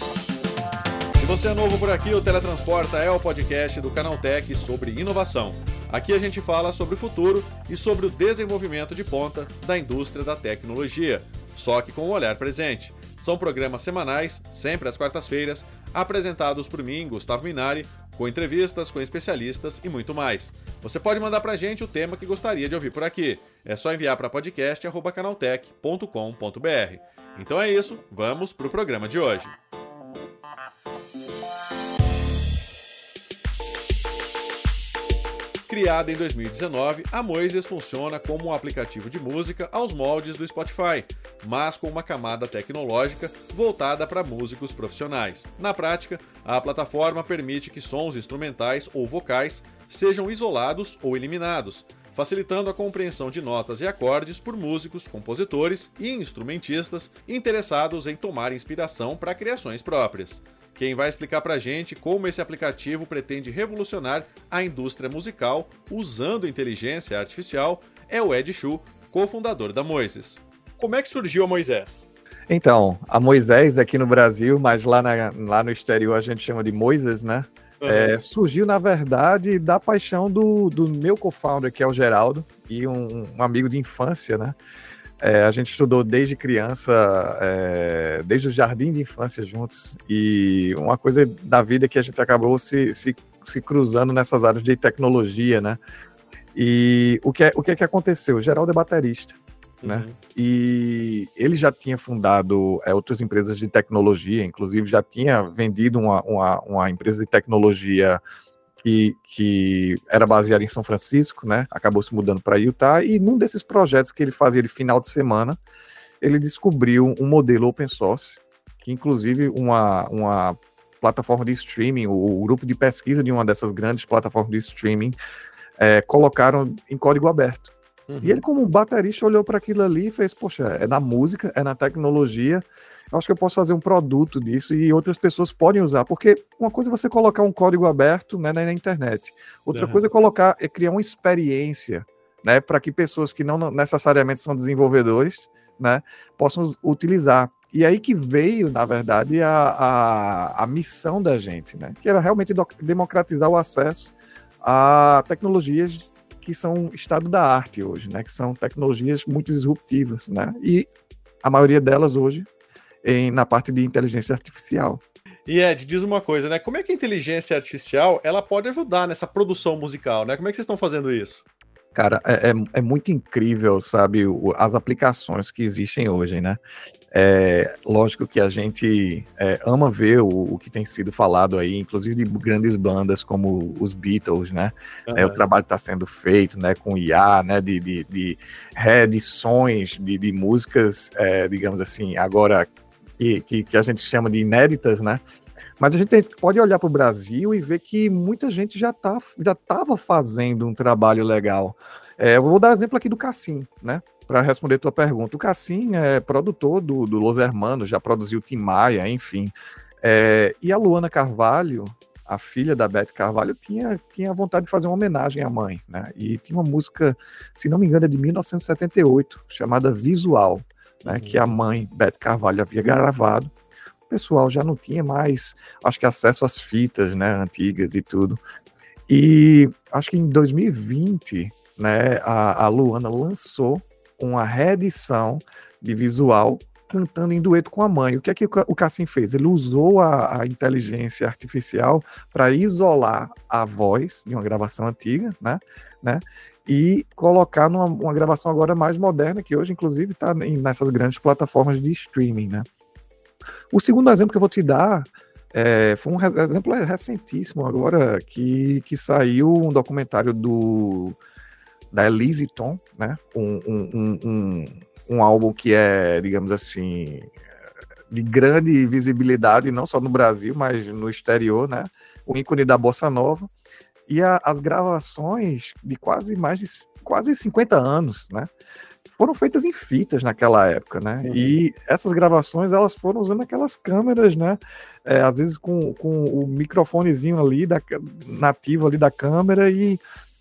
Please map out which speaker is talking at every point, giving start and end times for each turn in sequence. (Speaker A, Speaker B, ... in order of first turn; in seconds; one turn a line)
Speaker A: 1.2-29.6
Speaker A: 35.7-72.1
Speaker B: 72.5-84.5
Speaker A: 77.8-78.2
Speaker B: 85.2-95.8
Speaker B: 96.5-108.2
Speaker A: 99.8-100.2
Speaker B: 108.8-115.6
Speaker B: 116.2-125.2
Speaker B: 125.8-160.9
Speaker A: 128.1-128.4
Speaker A: 139.7-140.0
Speaker B: 161.4-162.5
Speaker B: 163.0-165.0
Speaker A: 165.5-171.4
Speaker B: 171.9-176.6
Speaker B: 177.1-195.2
Speaker A: 185.1-185.4
Speaker B: 195.8-223.5
Speaker A: 221.0-221.5
Speaker B: 224.1-228.4
Speaker B: 229.1-252.7
Speaker B: 253.7-261.2
Speaker B: 261.9-267.3
Speaker B: 268.1-273.5
Speaker B: 274.1-278.5
Speaker B: 279.1-290.0
Speaker A: 281.2-281.6